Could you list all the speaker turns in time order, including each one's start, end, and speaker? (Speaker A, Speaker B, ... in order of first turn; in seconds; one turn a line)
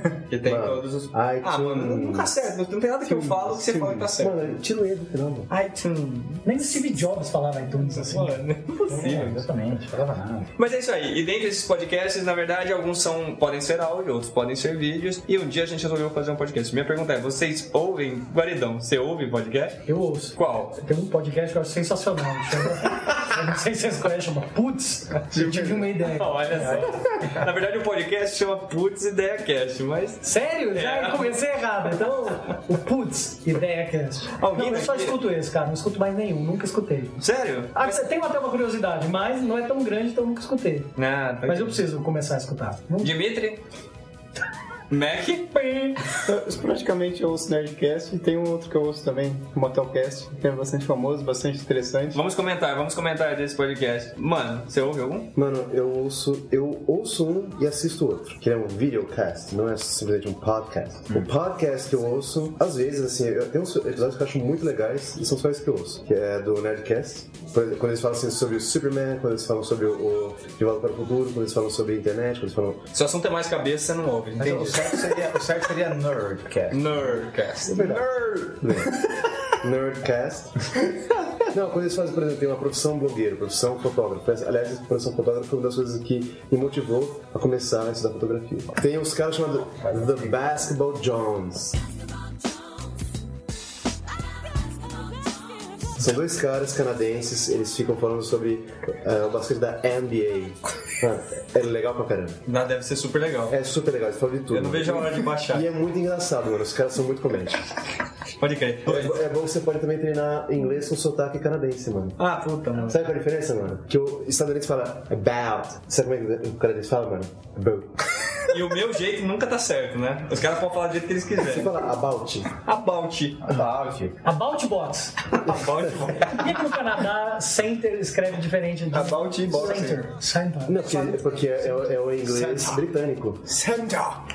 Speaker A: 0.3-4.5
Speaker B: 0.4-2.3
Speaker C: 3.1-4.1
Speaker B: 4.1-5.5
Speaker A: 5.5-6.5
Speaker D: 6.4-8.4
Speaker A: 7.8-9.4
Speaker E: 8.9-10.5
Speaker A: 10.6-19.8
Speaker D: 19.9-27.0
Speaker A: 20.4-20.8
Speaker C: 25.3-25.9
Speaker A: 26.1-31.4
Speaker D: 30.2-37.2
Speaker A: 34.4-35.2
Speaker A: 37.2-38.0
Speaker D: 37.7-40.9
Speaker A: 41.0-41.8
Speaker D: 41.5-43.1
Speaker A: 43.0-43.6
Speaker A: 44.9-45.9
Speaker C: 46.2-52.2
Speaker A: 52.1-55.3
Speaker B: 55.3-72.8
Speaker A: 72.9-75.0
Speaker E: 74.4-77.2
Speaker A: 76.7-78.5
Speaker B: 77.6-78.1
Speaker B: 78.6-78.9
Speaker B: 79.6-80.5
Speaker B: 81.5-91.8
Speaker B: 96.0-102.4
Speaker A: 102.5-103.6
Speaker B: 103.5-107.6
Speaker A: 104.5-105.7
Speaker A: 108.4-109.2
Speaker B: 108.8-112.2
Speaker A: 112.2-113.0
Speaker B: 112.8-118.0
Speaker A: 118.5-121.8
Speaker B: 121.4-122.5
Speaker A: 122.6-123.4
Speaker E: 123.4-124.2
Speaker D: 124.2-125.1
Speaker A: 125.3-126.6
Speaker D: 126.3-130.8
Speaker C: 128.9-130.0
Speaker B: 130.7-133.4
Speaker E: 132.2-132.7
Speaker C: 133.6-134.1